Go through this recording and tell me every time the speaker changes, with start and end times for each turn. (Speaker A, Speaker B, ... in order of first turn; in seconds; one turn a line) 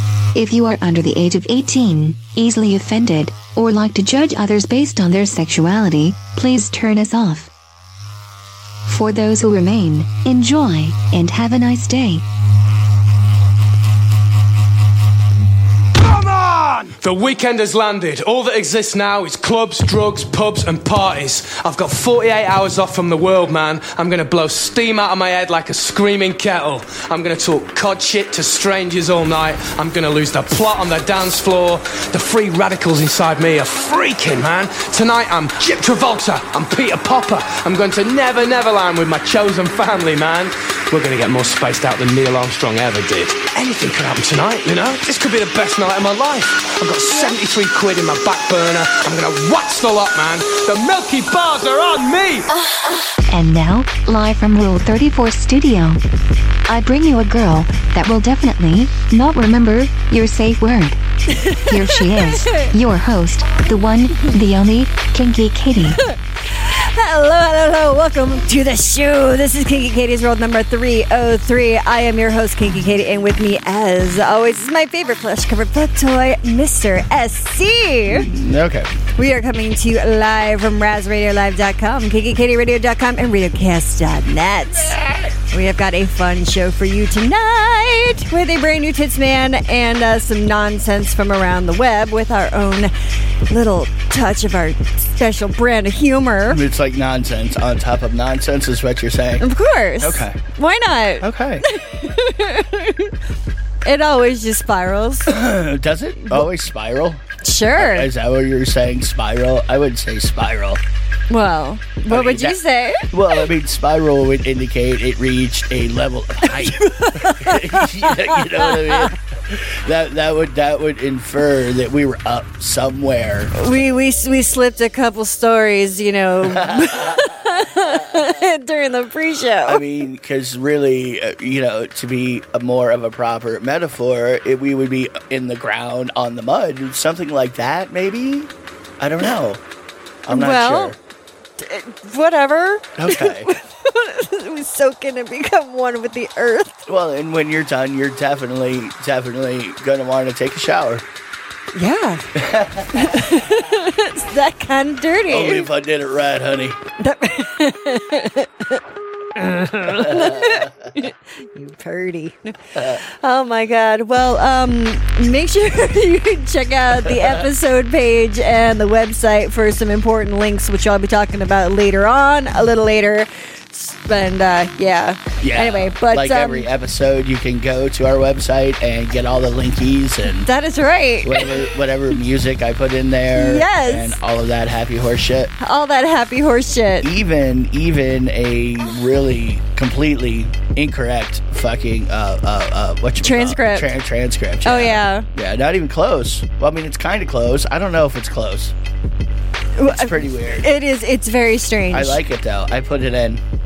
Speaker A: 0.3-7.5
Speaker A: 8.9-12.2
Speaker B: 16.0-52.5
Speaker A: 53.3-56.0
Speaker A: 56.7-66.0
Speaker C: 61.3-62.7
Speaker C: 66.3-78.3
Speaker D: 78.1-79.0
Speaker C: 79.2-96.6
Speaker D: 84.8-85.4
Speaker D: 96.5-99.5
Speaker C: 99.4-103.2
Speaker D: 100.0-100.4
Speaker D: 101.2-101.7
Speaker C: 103.8-105.4
Speaker D: 105.3-107.2
Speaker C: 107.4-108.1
Speaker D: 107.8-110.8
Speaker C: 111.3-113.1
Speaker D: 112.1-123.5
Speaker C: 116.4-119.2
Speaker C: 123.5-129.8
Speaker D: 126.5-127.3
Speaker D: 129.7-139.6
Speaker D: 140.2-141.0
Speaker C: 140.3-141.0
Speaker C: 141.6-146.9
Speaker D: 143.0-143.5
Speaker D: 146.9-151.1
Speaker C: 151.7-152.4
Speaker D: 152.3-153.3
Speaker C: 152.9-155.7
Speaker D: 155.3-156.8
Speaker C: 157.0-158.8
Speaker C: 159.3-176.7
Speaker D: 159.9-160.7
Speaker D: 175.4-180.5
Speaker C: 180.4-181.4
Speaker D: 181.2-185.5
Speaker C: 183.3-184.2
Speaker C: 185.6-187.1
Speaker D: 187.0-198.8
Speaker C: 193.2-193.9
Speaker C: 194.7-195.3
Speaker C: 199.8-202.2
Speaker D: 199.8-200.7
Speaker D: 201.9-203.4